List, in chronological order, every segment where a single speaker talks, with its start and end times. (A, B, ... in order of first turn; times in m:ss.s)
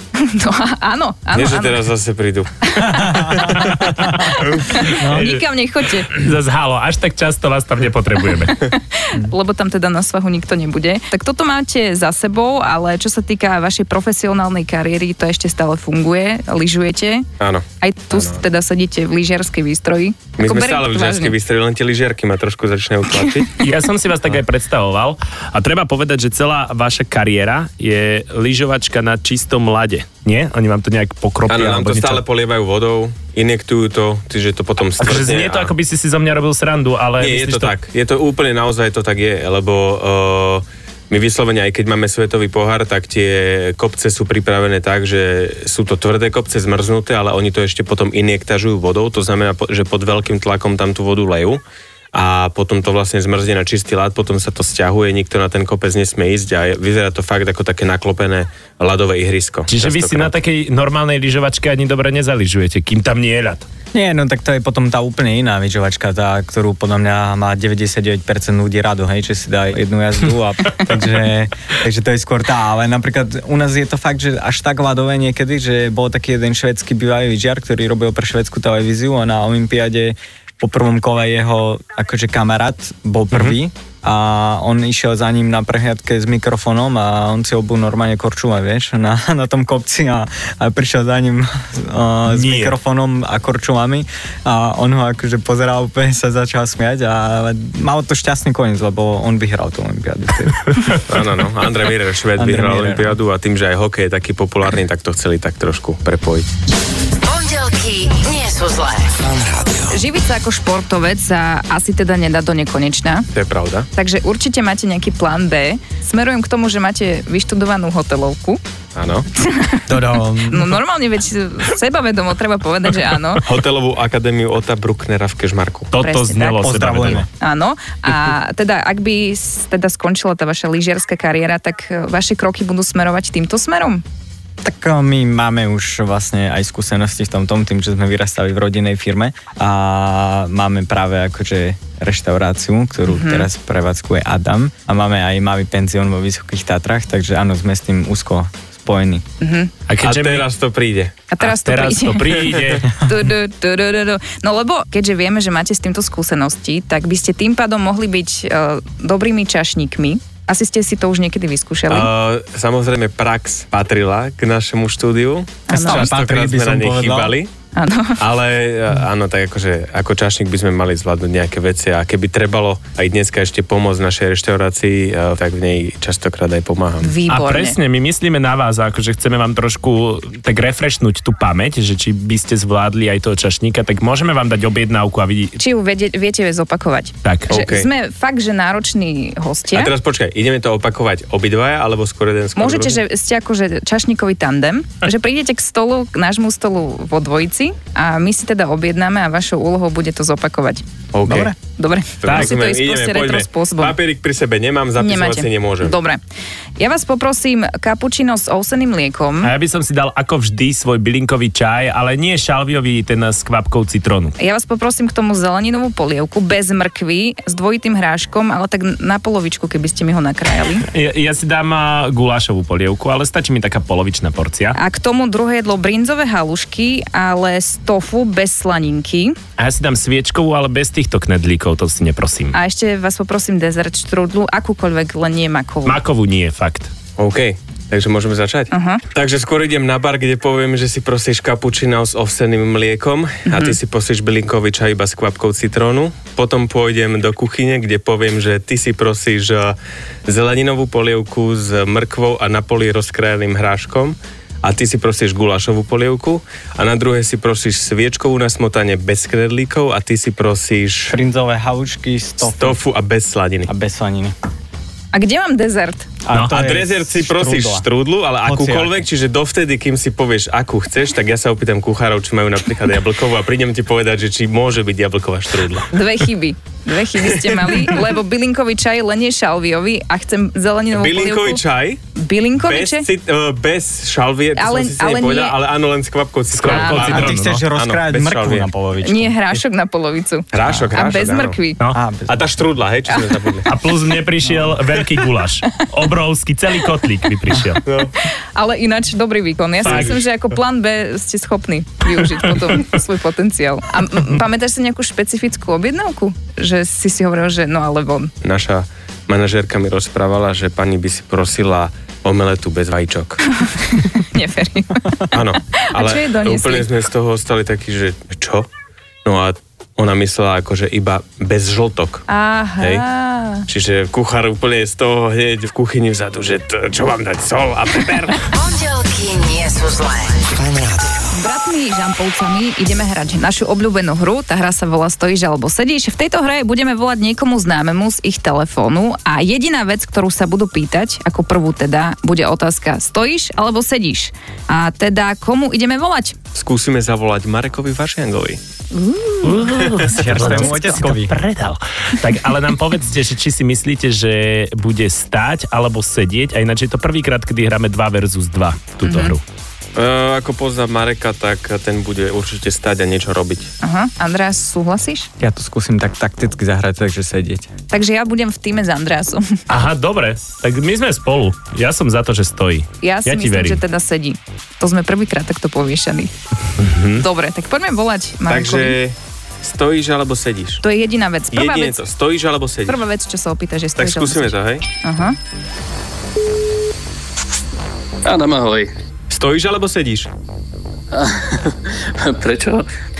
0:00.2-0:01.8 A
0:01.3-0:04.9 B
0:02.7-0:06.1 A
0:02.8-0:04.2 C
0:04.9-0:05.4 C
0:05.1-0:05.4 D
0:06.1-0:08.6 D
0:08.4-0:17.2 A
0:17.4-0:18.4 B
0:17.8-0:21.3 A
0:20.4-0:23.5 B
0:23.6-0:32.2 D
0:31.5-0:35.7 B
0:35.0-0:37.8 D
0:37.2-0:51.6 B
0:52.1-1:00.4 B
0:59.7-1:03.7 D
1:03.9-1:40.9 C
1:32.3-1:32.7 D
1:41.1-1:46.5 B
1:42.4-1:43.2 C
1:47.3-1:49.6 E
1:47.3-1:49.0 F
1:49.9-1:53.3 A
1:53.3-1:53.9 B
1:53.9-1:58.6 A
1:58.9-1:59.3 B
1:59.4-1:59.8 A
1:59.9-2:00.8 C
2:00.5-2:03.4 A
2:03.4-2:05.9 B
2:05.9-2:07.2 D
2:06.0-2:06.6 A
2:06.5-2:07.3 C
2:07.4-2:14.0 A
2:14.6-2:29.2 C
2:23.0-2:23.5 A
2:29.4-2:29.7 A
2:29.9-2:30.5 D
2:30.0-2:31.2 B
2:31.3-2:42.1 A
2:31.4-2:32.9 D
2:32.3-2:32.8 B
2:41.9-2:47.5 B
2:45.7-2:46.1 A
2:45.7-2:47.4 C
2:47.7-2:48.2 A
2:48.2-2:57.1 B
2:57.0-2:57.8 A
2:57.3-3:05.6 D
3:05.6-3:09.9 A
3:07.2-3:07.5 D
3:07.5-3:07.9 B
3:09.7-3:13.0 B
3:12.6-3:20.8 A
3:21.1-3:21.5 B
3:21.2-3:21.5 C
3:21.8-3:24.0 A
3:22.2-3:26.0 B
3:22.2-3:22.6 D
3:25.0-3:26.2 A
3:26.8-3:29.5 A
3:29.4-3:34.3 D
3:34.4-3:40.8 A
3:40.9-3:44.8 D
3:44.7-3:49.4 A
3:49.6-3:52.6 D
3:52.5-3:56.0 A
3:55.8-3:56.9 D
3:57.2-4:21.2 B
3:58.7-3:59.0 A
4:03.4-4:03.8 A
4:21.1-4:22.8 C
4:22.4-4:23.7 B
4:23.6-4:24.3 C
4:25.1-4:26.1 A
4:26.2-4:27.9 C
4:26.5-4:35.9 B
4:28.4-4:29.1 C
4:35.9-4:41.6 A
4:37.2-4:38.1 B
4:40.9-4:42.0 B
4:42.1-4:43.1 A
4:42.6-4:48.7 B
4:44.5-4:45.6 A
4:46.5-4:47.6 D
4:46.7-4:47.2 A
4:47.0-4:49.3 C
4:49.0-4:51.8 A
4:50.5-4:51.6 B
4:50.6-4:50.9 C
4:51.9-4:52.5 C
4:52.3-4:53.7 B
4:53.1-4:53.6 A
4:53.6-4:57.8 D
4:57.8-4:58.2 B
4:58.5-5:08.3 A
4:59.8-5:00.2 B
4:59.8-5:00.2 D
5:08.4-5:13.4 B
5:13.6-5:15.3 A
5:15.3-5:18.7 B
5:15.8-5:16.9 A
5:19.2-5:22.2 B
5:22.3-5:23.7 A
5:22.8-5:23.0 B
5:23.7-5:28.4 B
5:28.6-5:30.5 F
5:30.4-5:31.1 E
5:31.3-5:46.4 A
5:46.5-5:48.6 B
5:48.9-5:49.6 A
5:49.4-5:59.4 D
5:49.8-5:50.1 B
5:50.1-5:51.3 C
5:50.2-5:51.0 A
5:59.0-5:59.4 A
5:59.9-6:03.7 B
6:03.8-6:05.3 A
6:05.4-6:07.7 C
6:07.9-6:09.6 A
6:09.7-6:13.8 D
6:13.0-6:16.3 A
6:16.8-6:17.2 D
6:17.1-6:19.0 A
6:18.5-6:20.8 B
6:20.8-6:22.0 A
6:21.5-6:23.0 B
6:22.8-6:25.4 A
6:24.0-6:24.8 B
6:28.2-6:28.9 G
6:29.3-6:30.3 B
6:31.1-6:32.9 G